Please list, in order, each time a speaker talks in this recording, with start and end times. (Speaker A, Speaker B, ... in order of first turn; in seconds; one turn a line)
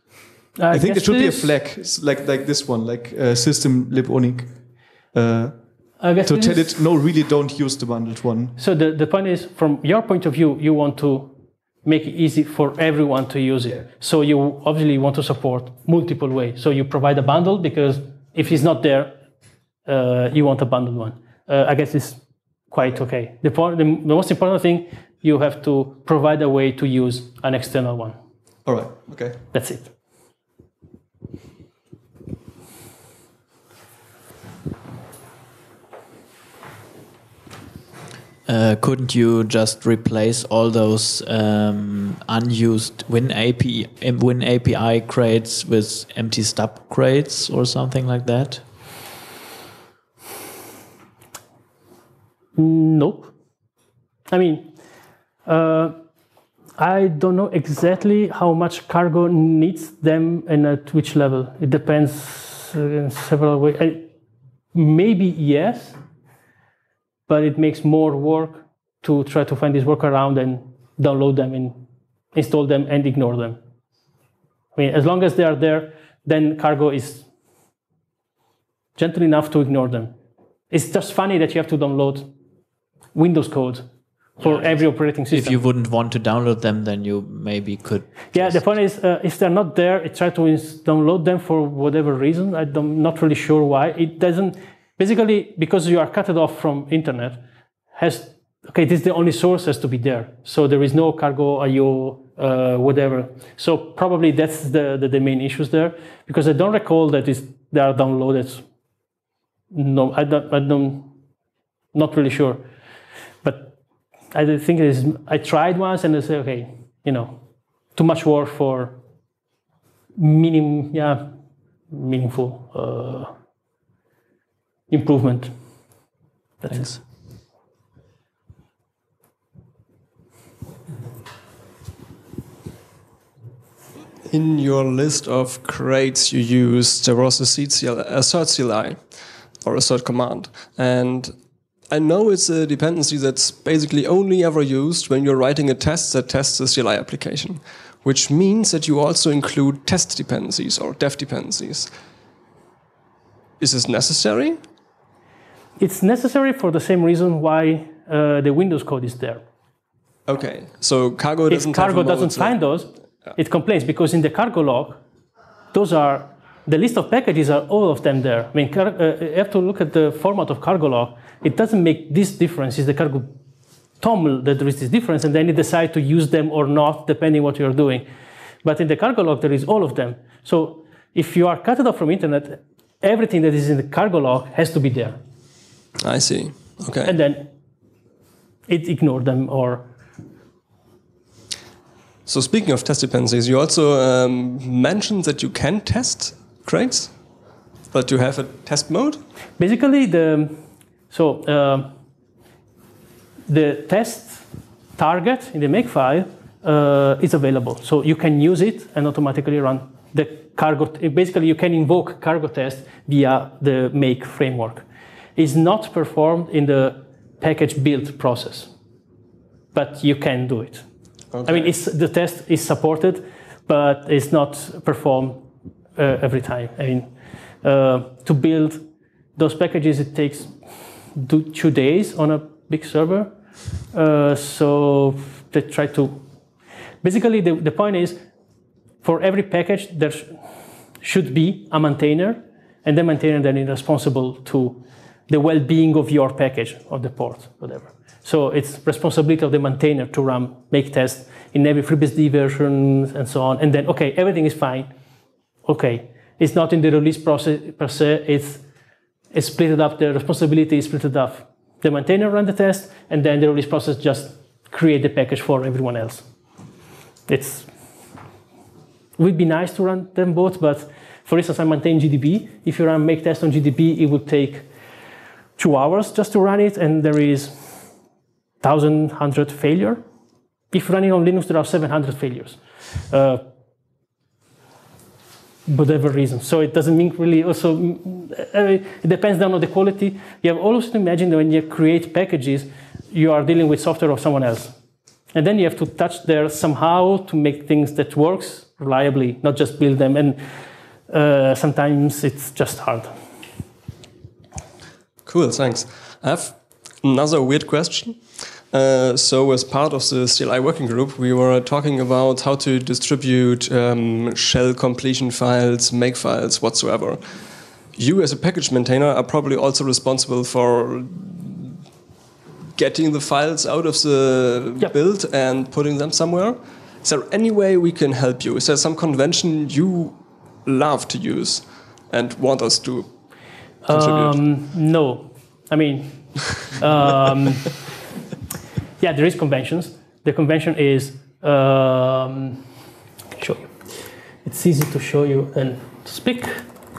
Speaker A: 0.6-1.6
Speaker B: 0.7-8.6
Speaker A: 6.0-6.8
Speaker A: 8.6-19.2
Speaker A: 19.8-28.2
Speaker B: 28.6-29.4
Speaker A: 29.5-29.9
Speaker C: 38.5-48.6
Speaker A: 52.5-53.3
Speaker A: 54.3-54.7
Speaker A: 55.4-56.0
Speaker A: 56.8-64.1
Speaker A: 64.7-66.0
Speaker A: 67.3-73.6
Speaker A: 74.7-77.2
Speaker A: 79.0-80.1
Speaker A: 80.7-82.3
Speaker A: 83.1-85.6
Speaker C: 85.3-88.7
Speaker A: 88.3-97.4
Speaker A: 97.9-108.6
Speaker A: 109.7-111.1
Speaker A: 111.9-112.6
Speaker A: 113.4-113.8
Speaker A: 114.3-119.0
Speaker A: 120.2-121.3
Speaker A: 121.9-123.3
Speaker A: 124.9-125.5
Speaker A: 126.6-127.0
Speaker D: 134.2-141.3
Speaker D: 141.9-151.9
Speaker D: 153.6-154.6
Speaker A: 155.8-159.4
Speaker D: 160.2-162.6
Speaker A: 161.5-165.0
Speaker A: 165.7-173.3
Speaker A: 174.0-178.1
Speaker A: 178.6-185.2
Speaker D: 186.0-187.1
Speaker A: 187.0-187.5
Speaker A: 188.7-189.9
Speaker D: 192.2-197.1
Speaker D: 197.9-199.2
Speaker A: 199.6-201.9
Speaker A: 203.5-204.4
Speaker A: 204.9-214.8
Speaker A: 215.3-218.7
Speaker A: 219.7-220.8
Speaker D: 221.3-221.7
Speaker A: 221.4-225.4
Speaker A: 225.9-227.1
Speaker A: 227.6-230.5
Speaker A: 231.1-233.3
Speaker A: 233.9-236.2
Speaker A: 237.0-238.2
Speaker A: 239.0-240.4
Speaker A: 241.0-254.9
Speaker A: 255.6-258.6
Speaker A: 259.3-266.2
Speaker A: 267.3-267.7
Speaker A: 269.2-274.6
Speaker A: 275.6-277.7
Speaker A: 278.6-280.0
Speaker A: 280.7-283.4
Speaker A: 285.7-294.7
Speaker A: 295.3-300.4
Speaker A: 301.1-303.1
Speaker D: 305.2-321.8
Speaker D: 322.7-334.4
Speaker A: 333.8-337.8
Speaker A: 339.0-342.6
Speaker A: 343.4-343.8
Speaker A: 344.4-346.7